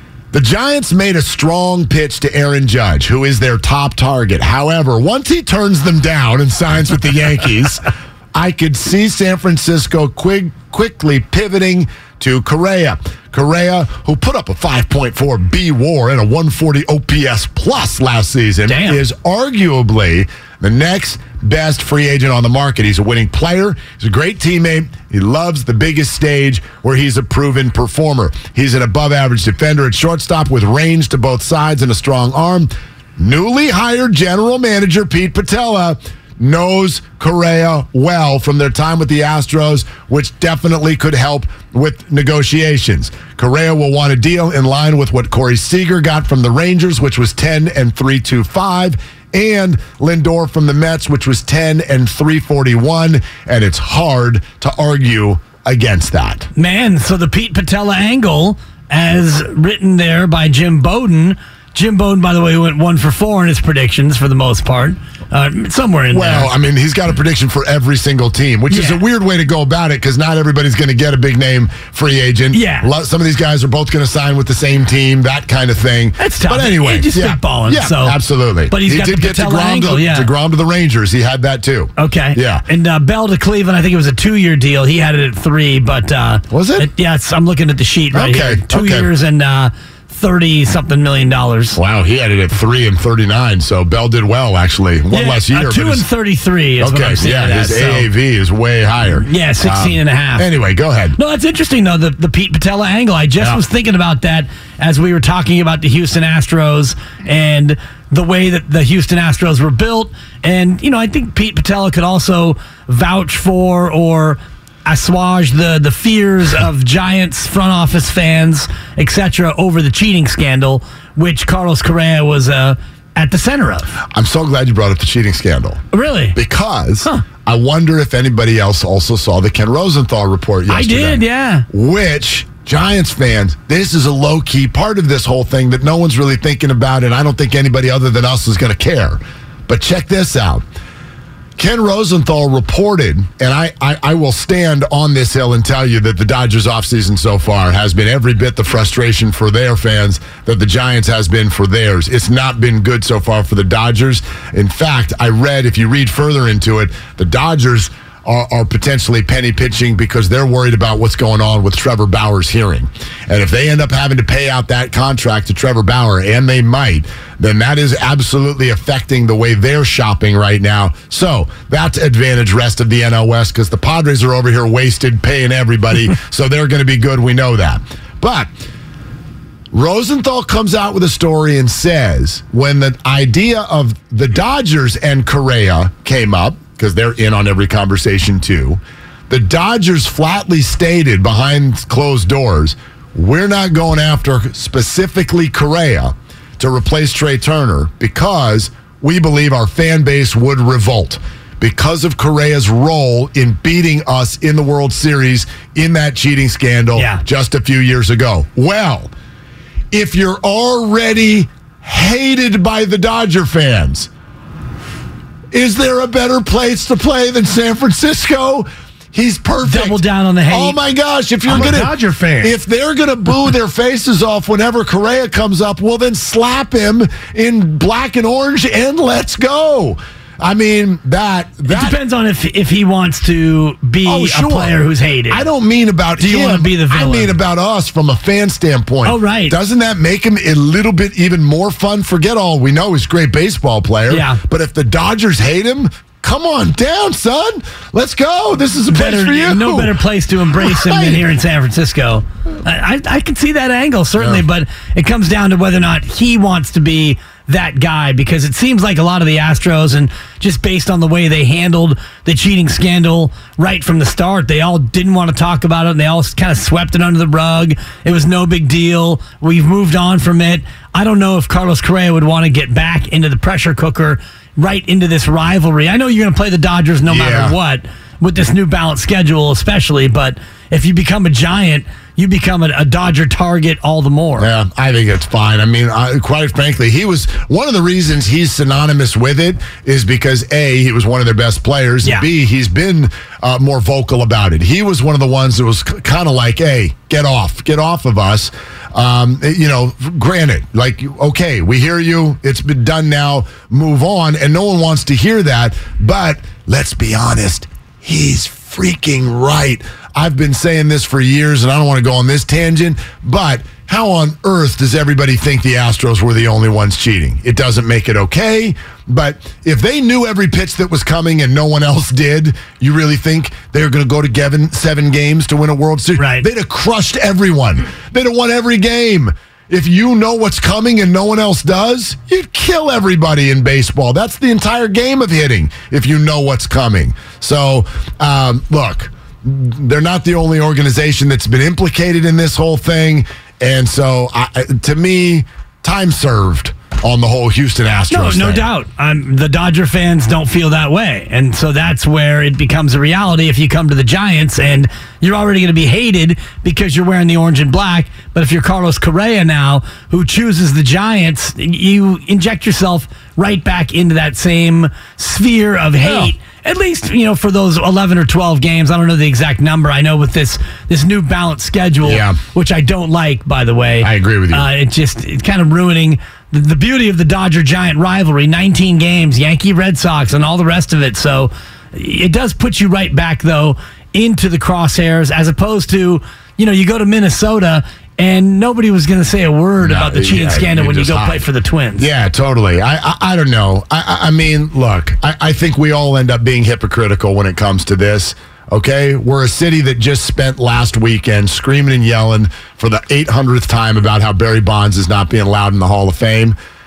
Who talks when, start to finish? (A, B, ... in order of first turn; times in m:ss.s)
0:00.3-0:56.5 A
0:18.6-0:19.0 B
0:56.6-1:06.5 B
1:06.1-1:22.6 A
1:08.7-1:09.0 B
1:12.5-1:12.9 B
1:16.2-1:18.2 B
1:18.7-1:20.3 B
1:22.0-1:31.8 B
1:26.5-1:26.9 A
1:28.1-1:29.1 A
1:31.7-1:36.0 A
1:35.1-1:38.1 B
1:36.8-1:41.2 A
1:39.3-1:40.4 B
1:41.2-2:03.9 B
2:04.1-2:05.8 A
2:05.9-2:06.4 B
2:06.3-2:20.6 A
2:10.7-2:11.6 B
2:21.6-2:58.5 A
2:59.7-3:29.1 A
3:26.9-3:27.2 B
3:29.9-3:34.1 A
3:35.5-3:52.0 A
3:39.6-3:40.8 B
3:41.5-3:41.9 B
3:51.7-3:55.4 B
3:54.0-3:54.8 A
3:55.3-4:10.0 A
3:56.2-3:57.3 B
3:59.0-3:59.6 B
4:04.1-4:04.4 B
4:08.9-4:44.5 B
4:10.5-4:11.3 A
4:14.2-4:14.4 A
4:37.0-4:37.6 A
4:44.4-5:48.7 A
5:26.2-5:26.4 B
5:48.1-6:32.1 B
6:06.0-6:06.3 A
6:12.0-6:12.4 A
6:14.0-6:14.7 A
6:29.8-6:46.6 A